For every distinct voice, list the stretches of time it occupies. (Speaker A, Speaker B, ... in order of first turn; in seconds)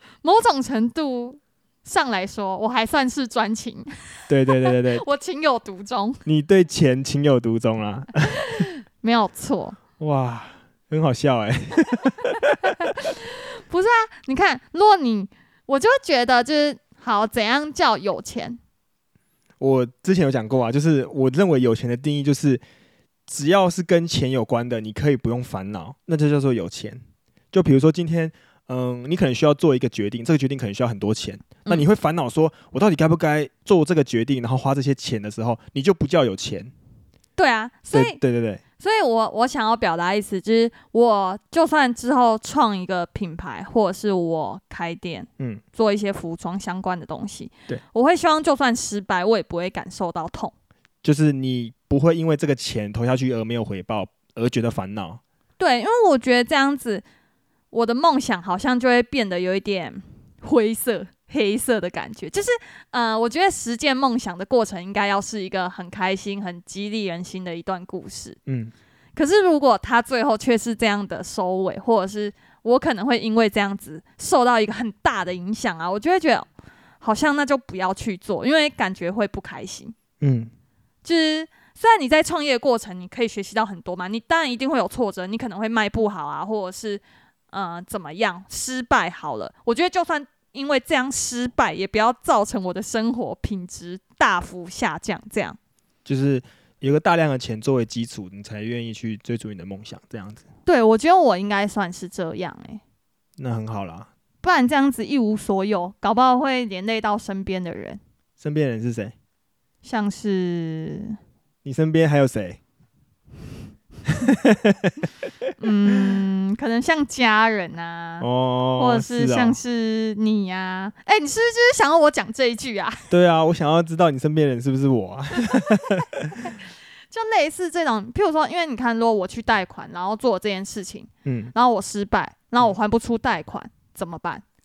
Speaker A: 0.2-3.9, 4.6-6.2, 8.4-9.8, 12.9-18.6, 37.4-38.2, 38.8-50.5, 55.6-57.0, 57.7-68.4, 69.2-76.5, 77.0-79.9, 81.0-95.6, 100.7-102.8, 104.4-108.0, 109.8-111.2, 115.6-118.2, 118.8-123.0, 127.1-134.4
Speaker B: 4.3-5.0, 6.2-8.4, 10.0-12.9, 19.6-22.6, 23.3-36.7, 37.9-38.6, 51.0-55.2, 68.5-68.7, 80.2-80.5, 96.0-100.4, 103.4-104.1, 108.4-109.1, 111.6-112.6, 114.1-115.5, 118.2-119.6, 123.1-126.5, 131.2-131.5